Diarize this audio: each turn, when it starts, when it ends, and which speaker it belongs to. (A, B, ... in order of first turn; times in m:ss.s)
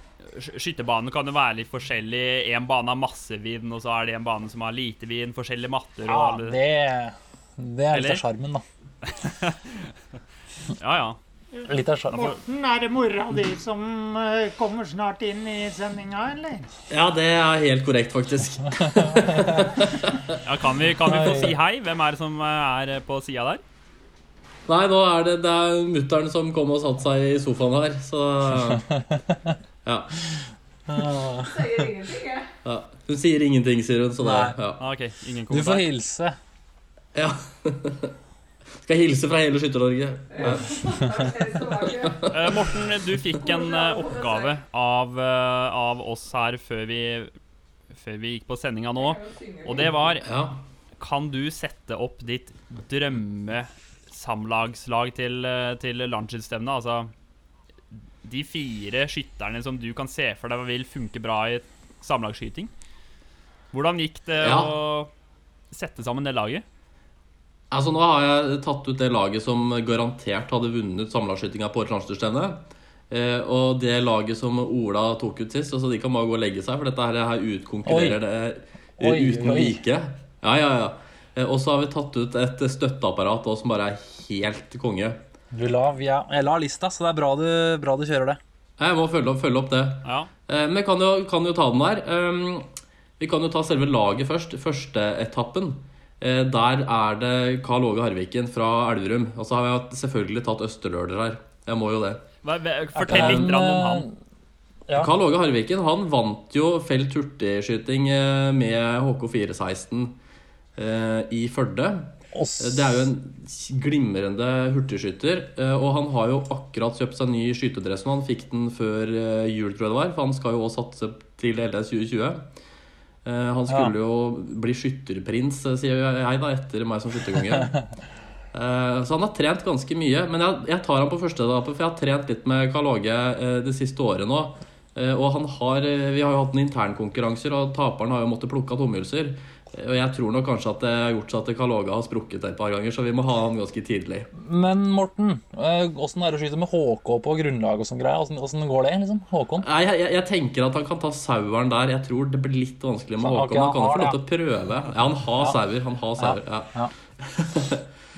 0:00.3-0:06.6 A
0:06.0-0:08.6 B
0:07.9-0:08.2 A
0:09.0-0:09.9 A
0:10.8-0:11.2 A
0:11.5-0:16.7 C
0:11.7-0:12.4 B
0:16.9-0:20.4 D
0:18.8-0:19.8 B
0:20.4-0:23.6 A
0:21.0-0:21.5 B
0:24.7-0:28.9 D
0:28.6-0:29.6 B
0:29.8-0:30.3 D
0:30.9-0:31.8 B
0:31.4-0:32.5 E
0:32.6-0:34.8 D
0:34.2-0:34.5 B
0:34.8-0:35.8 A
0:35.5-0:36.4 B
0:37.1-0:38.1 D
0:38.8-0:41.0 D
0:40.3-0:42.2 E
0:41.6-0:42.8 D
0:42.3-0:47.3 A
0:43.4-0:44.6 E
0:47.9-0:50.3 A
0:49.0-0:49.9 E
0:50.2-0:50.6 D
0:51.0-0:57.1 A
0:58.2-1:02.7 A
1:03.7-1:05.1 A
1:04.4-1:04.7 D
1:05.7-1:06.6 A
1:07.7-1:25.2 D
1:17.8-1:18.2 B
1:19.0-1:19.8 B
1:25.5-1:28.4 B
1:28.8-1:42.2 D
1:30.0-1:30.3 A
1:42.4-1:44.1 A
1:43.0-1:44.1 B
1:43.1-1:43.5 D
1:45.0-1:50.2 D
1:50.8-2:02.5 D
1:52.3-1:53.1 B
2:03.2-2:07.8 D
2:03.7-2:03.9 B
2:08.5-2:24.3 D
2:24.3-2:29.7 B
2:29.6-2:37.8 D
2:33.2-2:34.2 B
2:36.2-2:36.9 B